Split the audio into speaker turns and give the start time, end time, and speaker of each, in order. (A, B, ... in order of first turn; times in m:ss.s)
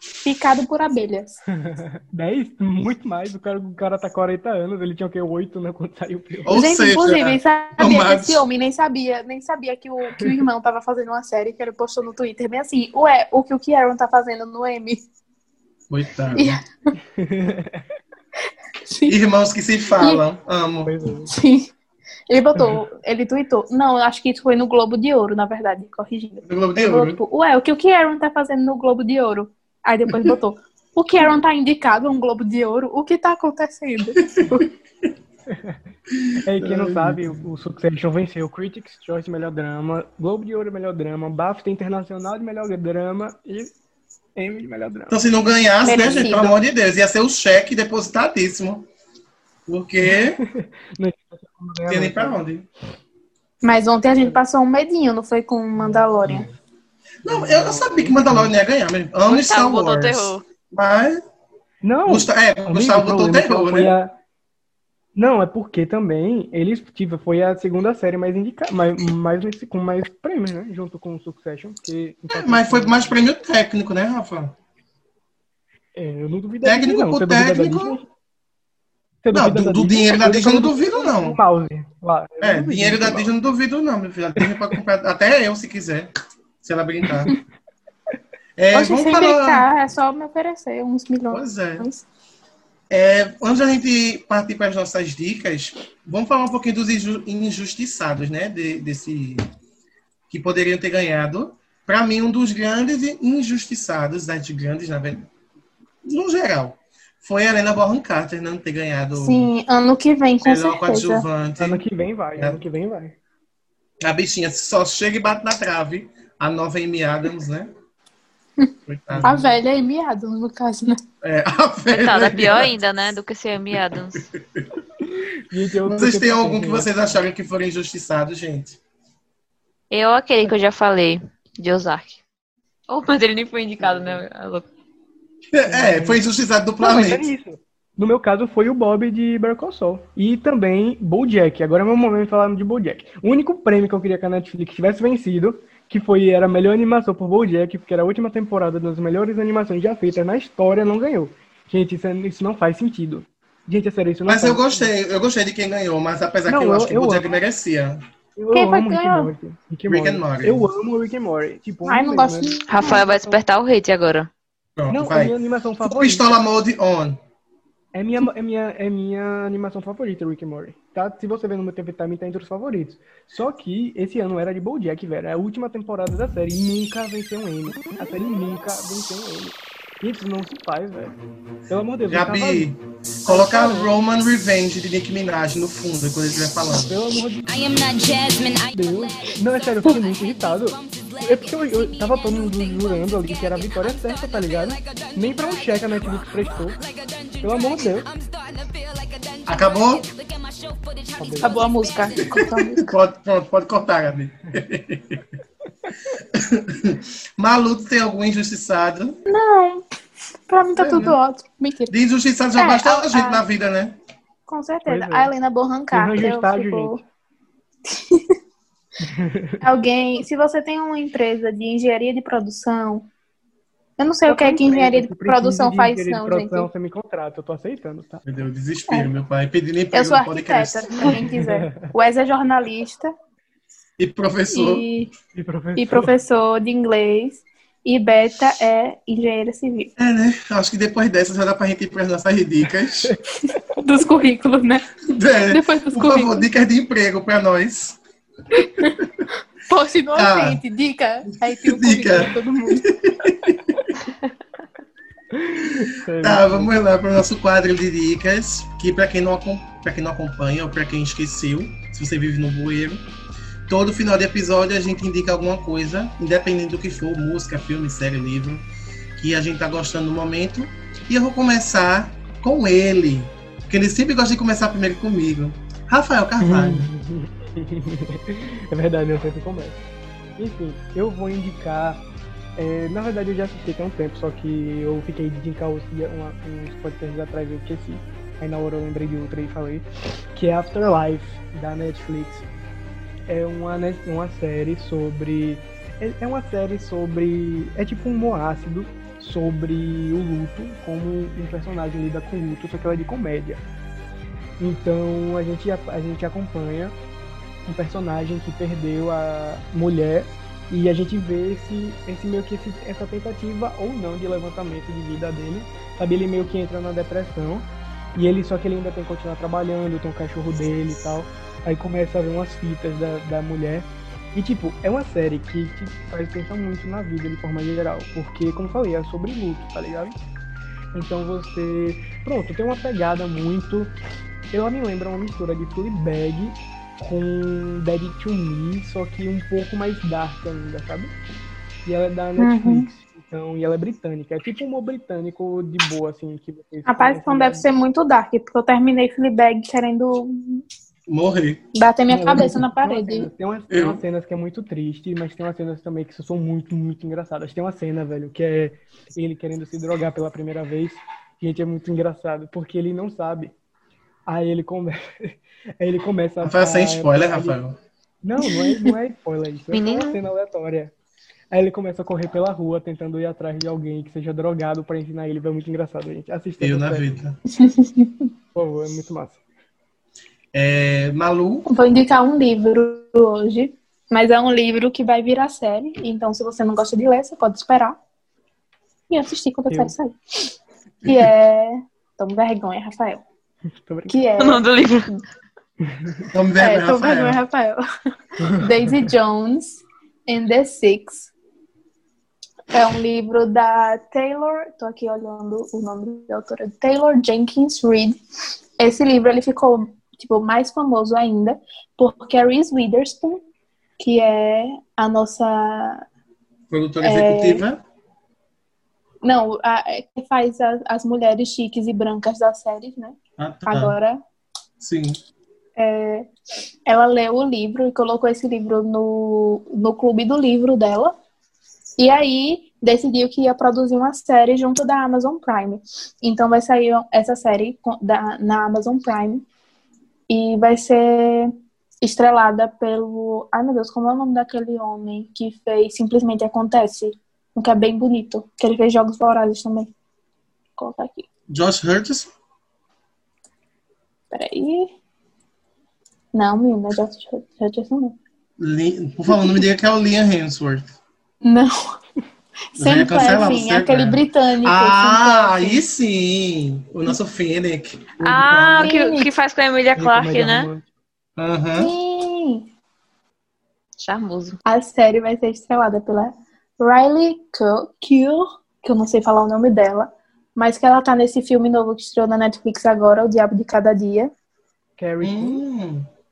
0:00.2-0:01.4 A
0:01.6-0:06.5 B
0:06.4-0:08.4 C
0:06.5-0:15.0 A
0:15.9-0:16.6 C
0:16.3-0:16.6 A
0:17.1-0:17.8 B
0:18.8-0:19.2 A
0:19.1-0:20.9 C
0:20.8-0:21.3 B
0:21.3-0:21.7 A
0:22.3-0:34.2 A
0:26.4-0:27.2 C
0:35.5-0:35.8 B
0:36.2-0:37.4 C
0:36.4-0:43.7 B
0:44.4-0:45.2 B
0:45.1-0:48.9 C
0:45.8-0:46.6 A
0:49.7-0:50.4 C
0:50.0-0:52.4 B
0:51.9-0:52.7 C
0:53.6-0:56.5 A
0:55.8-0:56.5 B
0:57.2-1:01.2 C
0:57.2-0:58.5 B
0:59.2-1:00.4 D
1:01.8-1:04.1 B
1:02.0-1:03.9 C
1:05.1-1:13.2 B
1:12.3-1:14.5 C
1:15.9-1:18.1 B
1:16.6-1:18.0 C
1:19.2-1:23.3 B
1:19.3-1:21.4 C
1:22.4-1:27.4 C
1:28.6-1:29.7 C
1:28.7-1:32.0 A
1:31.3-1:31.9 C
1:32.9-1:39.4 C
1:40.3-1:45.3 C
1:46.0-1:49.5 C
1:49.2-1:51.2 A
1:50.4-1:51.8 C
1:51.6-1:53.2 B
1:54.0-1:57.7 C
1:58.9-1:59.4 C
1:59.1-1:59.5 B
1:59.2-2:01.0 A
2:01.2-2:02.8 C
2:01.9-2:04.3 D
2:04.1-2:04.6 C
2:05.0-2:07.1 B
2:05.8-2:08.8 C
2:09.9-2:12.2 D
2:12.9-2:14.7 D
2:13.8-2:14.2 B
2:15.5-2:17.3 C
2:15.6-2:16.2 B
2:16.8-2:34.9 B
2:34.3-2:38.0 C
2:36.5-2:37.3 B
2:38.4-2:43.4 B
2:38.5-2:39.3 A
2:39.9-2:40.7 C
2:41.8-2:43.0 A
2:42.7-2:44.3 D
2:44.8-2:47.2 C
2:44.9-2:46.4 B
2:47.9-3:01.1 B
3:01.7-3:02.7 B
3:02.1-3:06.9 C
3:03.2-3:03.9 B
3:06.8-3:07.5 B
3:07.4-3:22.5 E
3:08.7-3:16.8 B
3:17.4-3:18.1 B
3:19.4-3:20.0 C
3:21.2-3:21.6 B
3:21.4-3:22.9 A
3:22.2-3:25.2 C
3:26.3-3:29.2 C
3:29.3-3:29.8 A
3:30.5-3:31.9 A
3:30.8-3:31.2 C
3:31.9-3:34.0 C
3:32.5-3:33.4 A
3:34.5-3:37.0 A
3:34.9-3:35.3 B
3:35.9-3:37.0 B
3:37.9-3:38.2 A
3:39.0-3:39.6 B
3:39.6-3:43.1 A
3:44.0-3:46.7 A
3:44.2-3:48.2 B
3:48.2-3:51.2 C
3:49.9-3:53.1 A
3:51.0-3:51.9 B
3:54.0-3:54.9 C
3:54.5-3:55.1 A
3:55.3-3:56.1 B
3:55.8-3:59.9 A
4:00.0-4:03.2 C
4:03.5-4:04.9 A
4:05.0-4:08.0 C
4:05.5-4:06.5 A
4:08.6-4:09.0 A
4:09.7-4:12.8 A
4:10.1-4:10.6 C
4:11.4-4:13.7 C
4:15.3-4:16.7 B
4:16.2-4:23.0 C
4:23.7-4:36.9 C
4:36.4-4:39.8 B
4:40.4-4:42.0 B
4:42.6-4:52.5 B
4:53.3-5:03.6 B
5:04.6-5:06.9 B
5:07.6-5:30.2 B
5:30.9-5:33.9 B
5:34.5-5:41.1 B
5:41.8-5:47.6 B
5:42.4-5:42.9 A
5:46.8-5:50.6 A
5:51.1-5:51.6 C
5:51.7-5:53.3 A
5:52.1-6:03.5 B
5:53.7-5:54.0 C
6:04.2-6:07.6 B
6:06.4-6:07.8 C
6:08.2-6:10.9 B
6:09.7-6:10.2 D
6:11.5-6:17.2 B
6:16.6-6:17.4 C
6:17.6-6:18.1 A
6:18.5-6:19.4 B
6:20.5-6:21.7 C
6:21.7-6:28.0 A
6:29.1-6:30.5 A
6:29.7-6:29.9 B
6:31.0-6:33.2 A
6:33.8-6:34.2 B
6:34.1-6:35.2 A
6:34.4-6:35.1 D
6:35.8-6:36.2 B
6:36.3-6:37.4 C
6:36.6-6:37.8 A
6:38.5-6:41.3 A
6:42.7-6:48.2 A
6:48.8-6:53.4 A
6:54.0-6:56.0 A
6:56.7-6:57.8 C
6:57.0-6:57.6 A
6:59.2-7:03.2 A
7:03.4-7:04.0 C
7:03.7-7:04.2 A
7:04.8-7:05.2 C
7:05.8-7:06.3 A
7:06.9-7:11.1 A
7:12.0-7:19.4 A
7:20.3-7:29.9 A
7:30.8-7:31.2 A
7:31.5-7:32.3 C
7:34.3-7:34.9 A
7:36.3-7:38.2 A
7:38.6-7:40.9 C
7:39.3-7:39.6 A
7:41.4-7:41.7 A
7:42.7-7:45.8 A
7:42.8-7:48.6 C
7:48.2-7:48.9 B
7:48.2-7:50.7 D
7:48.8-7:49.3 A
7:50.0-7:50.9 B
7:51.4-7:51.9 C
7:51.8-7:52.6 A
7:54.0-7:54.6 D
7:54.6-8:04.3 A
8:05.0-8:05.6 B
8:05.2-8:06.1 C